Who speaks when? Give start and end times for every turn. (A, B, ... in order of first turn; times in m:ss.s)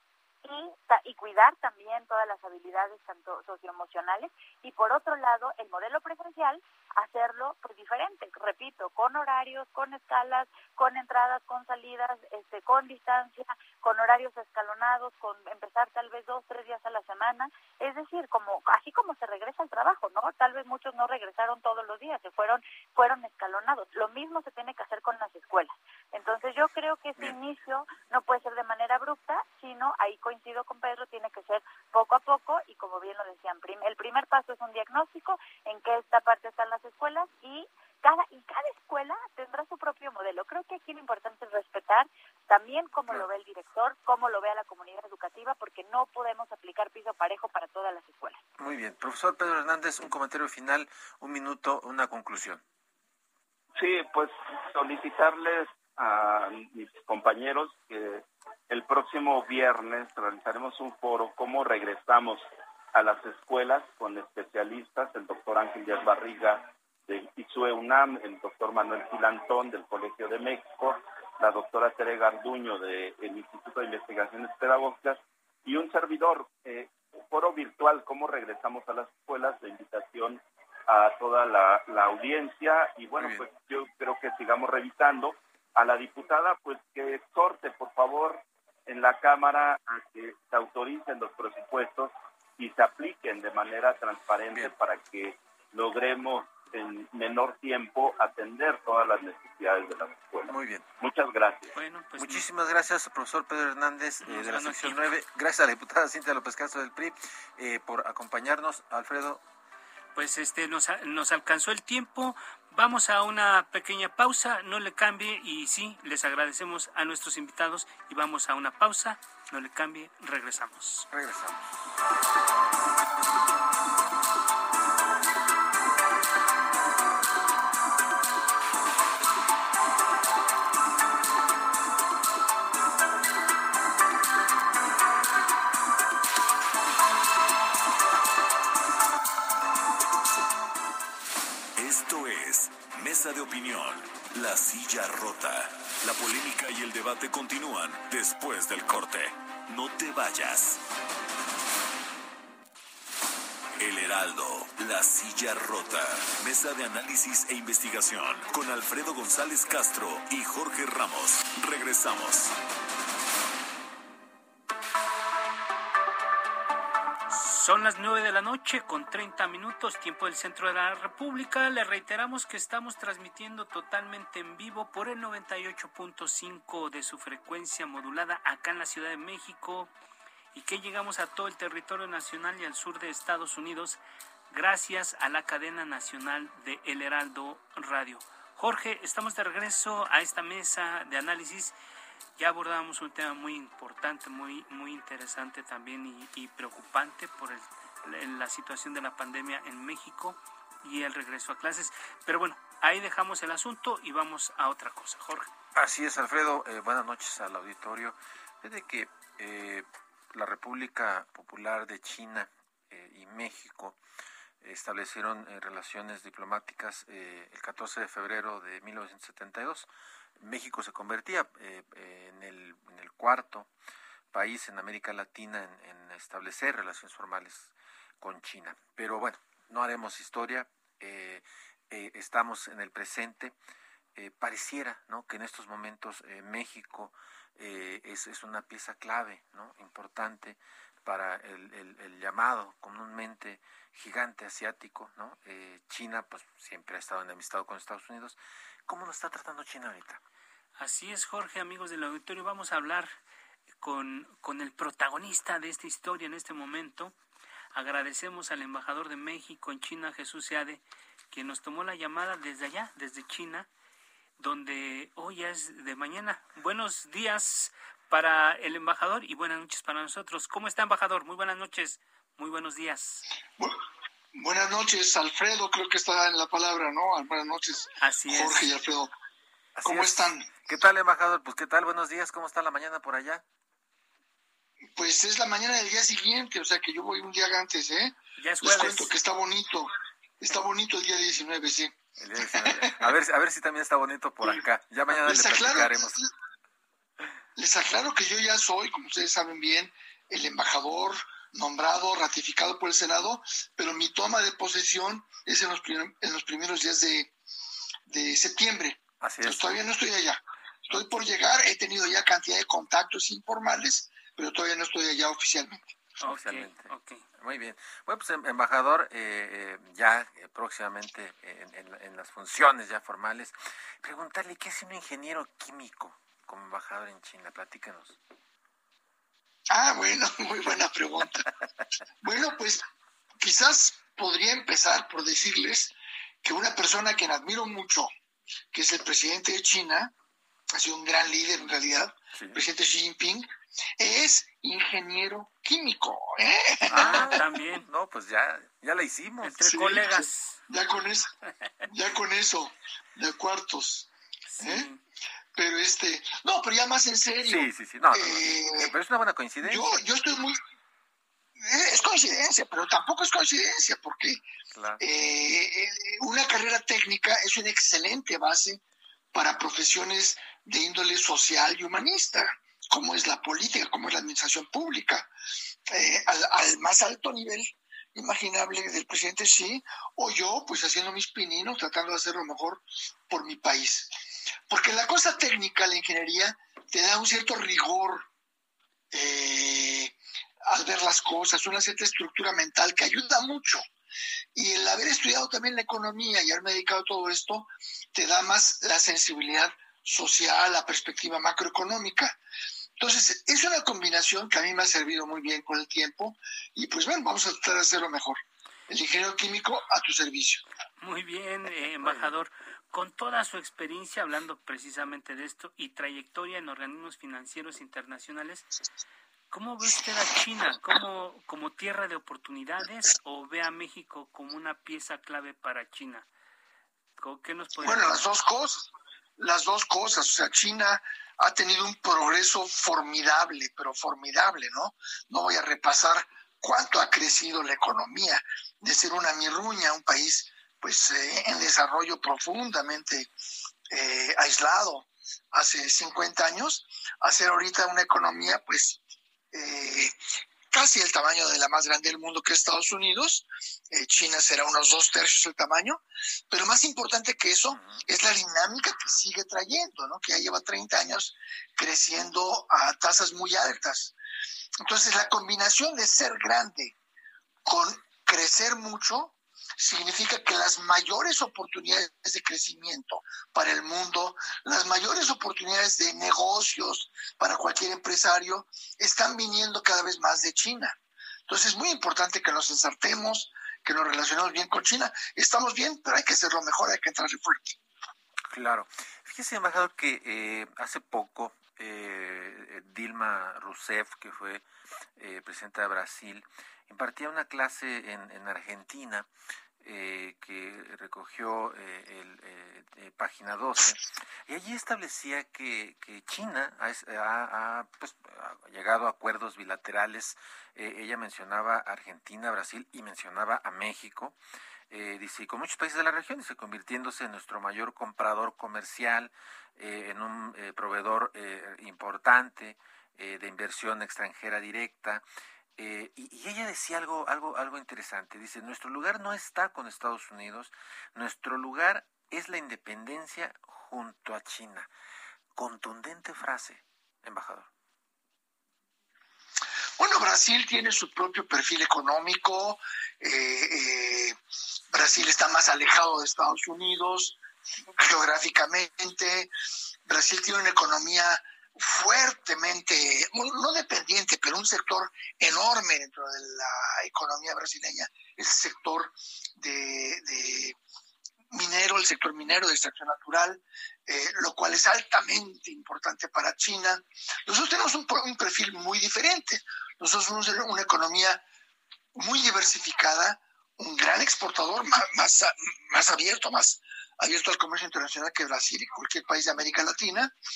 0:00.4-0:48.4 A
0:48.6-0:52.6 B
0:53.8-1:41.7 C
1:23.2-1:23.4 B
1:40.5-1:40.8 B
1:41.8-1:42.4 D
1:42.2-1:49.4 B
1:44.2-1:45.0 D
1:50.2-2:01.1 D
2:01.1-2:01.6 B
2:21.8-2:30.8 E
2:33.8-2:42.5 E
2:47.3-2:59.9 D
3:00.5-3:04.0 D
3:04.5-3:11.8 D
3:12.4-3:25.5 D
3:25.8-3:34.0 B
3:34.6-3:39.9 B
3:40.4-3:43.7 B
3:44.3-3:53.6 B
3:54.2-4:10.2 B
4:10.8-4:13.1 D
4:13.8-4:17.2 D
4:17.7-4:23.7 D
4:24.4-4:33.2 D
4:34.3-4:39.1 F
4:38.0-4:38.7 D
4:39.8-4:43.4 B
4:39.8-4:40.5 F
4:45.0-4:53.0 F
4:48.4-4:49.1 D
4:52.2-4:56.2 B
4:55.1-4:56.3 F
4:57.6-5:07.3 F
5:08.1-5:15.8 F
5:09.2-5:09.7 B
5:16.2-5:28.2 B
5:16.2-5:17.2 D
5:29.7-5:31.5 F
5:32.2-5:32.8 F
5:33.4-5:35.9 F
5:36.4-5:38.1 F
5:38.7-5:40.1 F
5:40.7-5:43.5 F
5:42.3-5:42.6 B
5:44.0-5:47.4 F
5:46.9-5:47.9 D
5:46.9-5:49.7 B
5:49.4-5:50.6 D
5:49.6-5:51.3 F
5:51.9-5:54.1 F
5:54.5-5:55.0 D
5:54.6-5:54.9 F
5:55.6-5:58.9 F
5:57.4-6:00.0 B
5:59.6-6:00.6 F
6:01.6-6:04.4 F
6:04.7-6:05.0 B
6:05.0-6:08.8 F
6:09.3-6:15.3 F
6:15.9-6:24.1 F
6:24.7-6:28.3 F
6:29.1-6:33.8 F
6:34.6-6:42.4 F
6:43.0-6:50.6 F
6:51.0-6:58.7 D
6:52.0-6:52.3 B
6:59.5-7:06.3 D
7:07.2-7:08.2 D
7:07.8-7:23.3 F
7:23.9-7:29.0 F
7:29.5-7:30.2 F
7:30.7-7:44.2 F
7:37.7-7:38.0 B
7:44.8-7:46.9 F
7:47.6-8:01.0 F
8:01.5-8:07.8 F
8:08.5-8:14.6 B
8:15.2-8:19.3 B
8:19.8-8:34.4 B
8:34.9-8:45.2 B
8:45.8-8:54.9 B
8:55.6-8:57.7 B
9:00.0-9:04.4 F
9:04.9-9:07.4 F
9:08.0-9:09.5 F
9:10.1-9:20.8 F
9:21.5-9:31.4 F
9:32.2-9:40.3 F